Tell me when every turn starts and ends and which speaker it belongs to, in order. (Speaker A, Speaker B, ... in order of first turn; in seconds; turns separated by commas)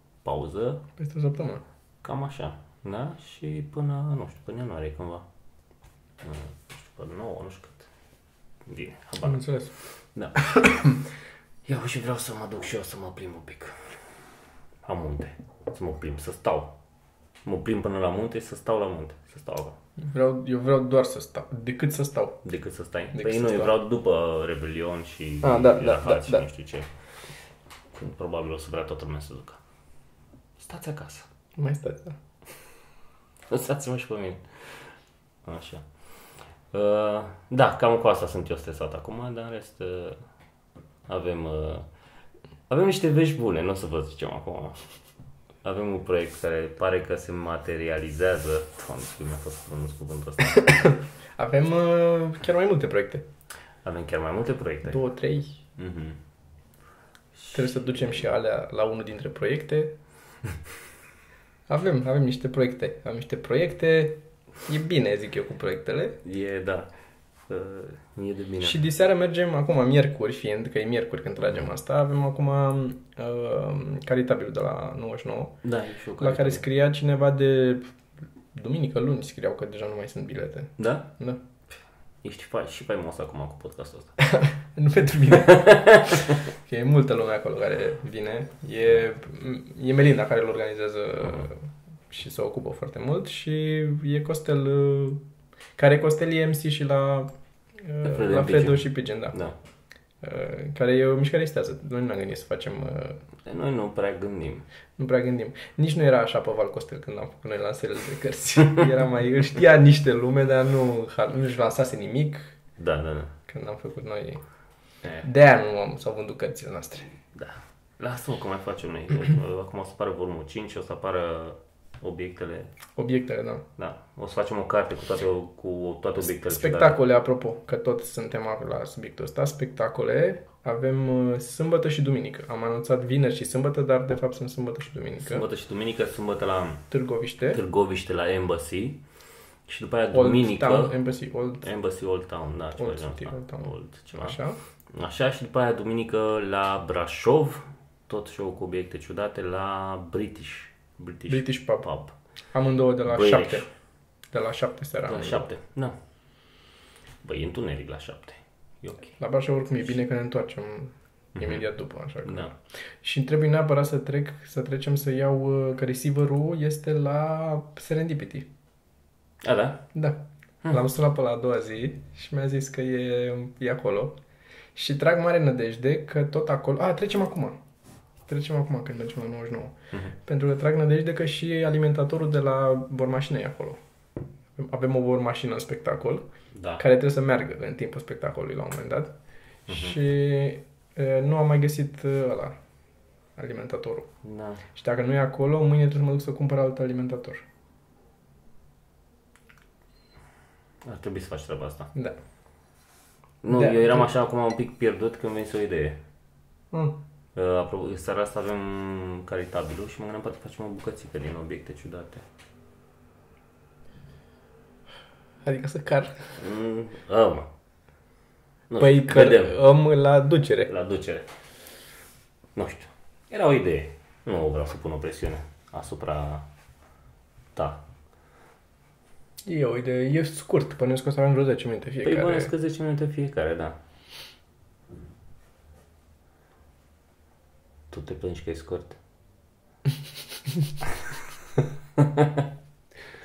Speaker A: 0.2-0.8, Speaker B: 1.0-1.6, Speaker A: 2.0-5.2, Speaker A: 6.2-7.9, Speaker A: 8.7-9.4, Speaker B: 9.2-9.7, Speaker A: 10.1-10.8, Speaker A: 11.6-14.0, Speaker A: 14.8-16.7, Speaker A: 17.4-19.8, Speaker B: 20.0-22.4, Speaker A: 22.4-26.9, Speaker B: 23.1-23.7, Speaker B: 25.4-26.4, Speaker A: 27.9-29.6, Speaker A: 30.6-31.3, Speaker B: 31.6-32.1, Speaker A: 33.5-34.9, Speaker A: 35.4-35.8, Speaker A: 36.7-40.2, Speaker A: 41.1-41.9, Speaker A: 42.7-44.8, Speaker A: 45.6-50.7, Speaker B: 50.5-53.2, Speaker A: 53.8-55.0, Speaker B: 54.9-55.5, Speaker A: 55.8-56.2, Speaker A: 57.4-58.1, Speaker B: 57.5-59.9, Speaker B: 61.7-66.2, Speaker A: 66.2-66.9, Speaker A: 67.5-68.8, Speaker B: 68.6-75.6, Speaker A: 75.6-76.6, Speaker B: 76.2-77.9, Speaker B: 78.5-81.4, Speaker A: 80.8-81.1, Speaker A: 82.2-84.2, Speaker B: 84.2-95.2, Speaker A: 85.6-86.1, Speaker B: 95.8-97.3, Speaker B: 97.8-99.4, Speaker A: 98.0-99.6, Speaker B: 100.2-103.2, Speaker A: 103.5-104.6, Speaker B: 105.0-112.5, Speaker A: 112.8-113.3, Speaker B: 113.5-114.4, Speaker B: 115.2-117.1, Speaker A: 117.3-122.7, Speaker B: 123.0-123.6, Speaker A: 123.8-127.0, Speaker B: 126.3-135.4, Speaker A: 135.2-136.8, Speaker B: 136.9-137.6, Speaker A: 137.5-139.0, Speaker A: 139.7-140.9, Speaker B: 140.1-141.6, Speaker A: 141.6-144.4, Speaker B: 142.8-144.6, Speaker A: 144.9-152.1, Speaker B: 151.3-151.8, Speaker B: 152.5-153.6, Speaker A: 153.1-153.7, Speaker B: 154.3-155.5, Speaker A: 155.0-155.9, Speaker A: 157.2-159.1, Speaker B: 159.2-162.5, Speaker A: 161.3-161.6, Speaker A: 162.2-162.5, Speaker B: 163.0-168.5, Speaker A: 169.4-169.8, Speaker B: 169.9-174.2, Speaker B: 174.7-177.6, Speaker B: 178.3-179.7, Speaker B: 180.2-183.8, Speaker B: 184.6-186.2, Speaker A: 186.5-186.8, Speaker B: 186.8-189.1, Speaker A: 189.7-189.9, Speaker B: 189.7-192.5, Speaker B: 193.3-194.1, Speaker A: 194.2-194.6, Speaker B: 194.7-197.4, Speaker A: 200.8-201.9, Speaker A: 203.4-206.0, Speaker B: 203.5-204.1, Speaker A: 207.3-212.2, Speaker B: 215.4-216.3, Speaker A: 216.4-217.5, Speaker A: 218.7-219.6, Speaker B: 218.8-220.7, Speaker A: 220.7-221.2, Speaker A: 222.5-226.4, Speaker A: 227.5-227.8, Speaker B: 229.4-232.5, Speaker A: 232.0-233.8, Speaker A: 237.9-239.0, Speaker A: 242.0-242.4